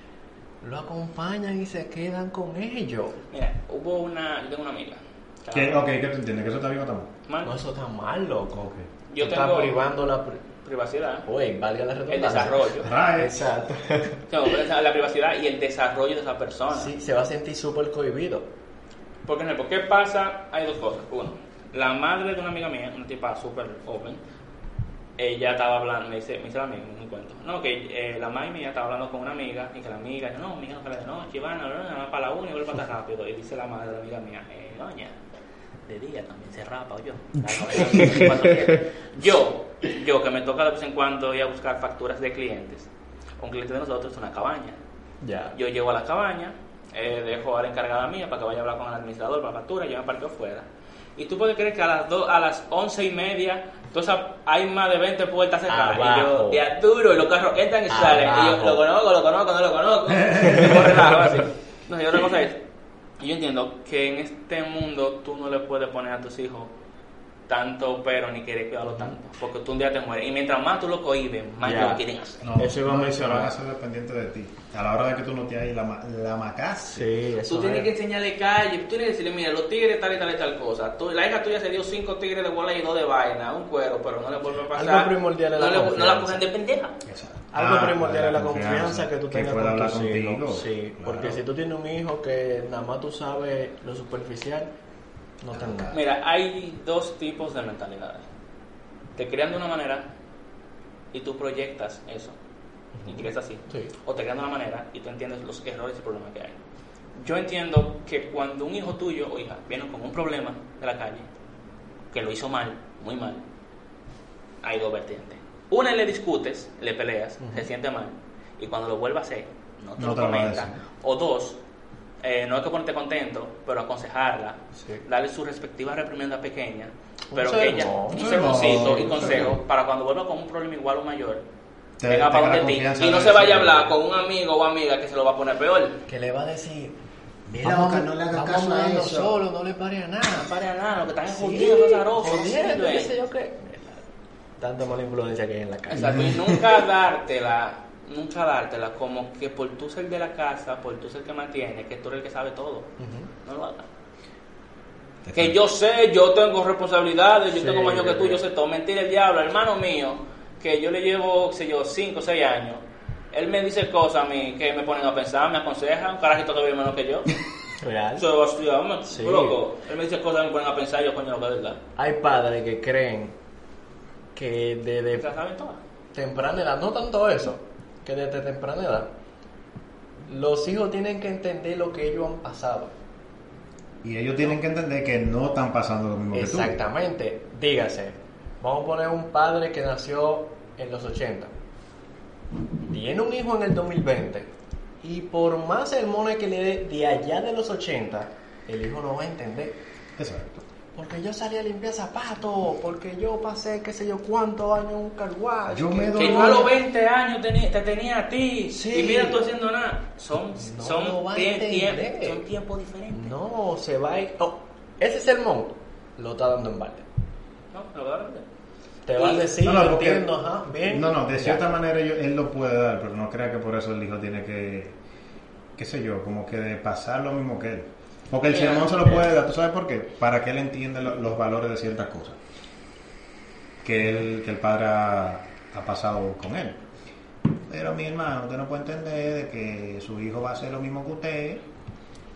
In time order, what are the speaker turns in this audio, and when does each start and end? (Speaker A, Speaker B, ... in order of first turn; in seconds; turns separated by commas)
Speaker A: 0.6-3.2, Speaker B: 3.3-5.8, Speaker C: 5.5-7.1, Speaker B: 7.3-7.5, Speaker A: 7.4-10.4, Speaker B: 9.1-9.8, Speaker B: 10.6-11.2, Speaker A: 11.2-14.2, Speaker B: 12.1-12.9, Speaker C: 12.8-13.3, Speaker B: 14.3-16.9, Speaker A: 16.7-18.5, Speaker B: 19.2-24.2, Speaker B: 25.2-35.1, Speaker B: 35.9-42.9, Speaker A: 37.9-38.3, Speaker B: 43.4-44.8, Speaker A: 45.2-45.5, Speaker B: 45.5-50.6, Speaker B: 51.2-62.6, Speaker A: 55.7-56.6, Speaker A: 57.9-58.8, Speaker A: 60.5-60.7, Speaker B: 63.2-66.7, Speaker B: 67.5-72.5, Speaker A: 71.6-72.0, Speaker C: 72.4-77.1, Speaker A: 72.5-73.5, Speaker A: 76.9-77.9, Speaker B: 77.5-87.0, Speaker A: 84.7-86.4, Speaker C: 87.0-91.4, Speaker A: 87.5-94.7, Speaker A: 95.4-96.0, Speaker C: 95.5-96.0, Speaker B: 95.9-98.2, Speaker B: 99.2-100.1, Speaker B: 101.1-102.3, Speaker A: 103.0-103.9, Speaker B: 103.1-106.5, Speaker B: 107.2-111.2, Speaker B: 112.1-113.4, Speaker B: 114.6-121.6, Speaker A: 117.4-117.7, Speaker C: 120.0-120.8, Speaker B: 122.2-131.4, Speaker A: 124.8-125.0, Speaker A: 127.3-129.6, Speaker C: 128.1-129.5, Speaker C: 132.0-133.9, Speaker B: 132.1-136.0, Speaker A: 136.1-137.0, Speaker C: 137.5-139.4, Speaker A: 137.6-140.6, Speaker B: 140.3-143.1, Speaker A: 141.3-144.1, Speaker A: 144.6-146.6, Speaker B: 145.9-152.9, Speaker C: 145.9-146.6, Speaker A: 153.0-153.3, Speaker B: 153.4-153.8, Speaker C: 155.2-155.6, Speaker B: 155.3-167.3, Speaker A: 157.5-158.4, Speaker A: 167.8-168.2, Speaker B: 168.2-171.8, Speaker A: 169.1-169.6, Speaker A: 172.0-173.3, Speaker A: 174.3-175.2, Speaker B: 175.2-175.8, Speaker A: 176.1-179.1, Speaker A: 180.3-182.9, Speaker C: 184.0-186.8, Speaker A: 186.3-191.5, Speaker A: 192.8-194.5, Speaker A: 195.0-199.8, Speaker C: 200.2-200.6, Speaker A: 200.9-206.7, Speaker C: 205.7-206.7, Speaker B: 206.2-213.3, Speaker A: 208.7-209.4, Speaker A: 210.6-212.4, Speaker A: 213.1-217.1, Speaker B: 217.7-218.4, Speaker A: 219.1-221.6, Speaker B: 219.1-219.5, Speaker C: 219.6-220.3, Speaker C: 220.9-224.9, Speaker C: 225.8-232.4, Speaker B: 228.5-229.1, Speaker C: 233.8-236.8, Speaker C: 237.7-241.6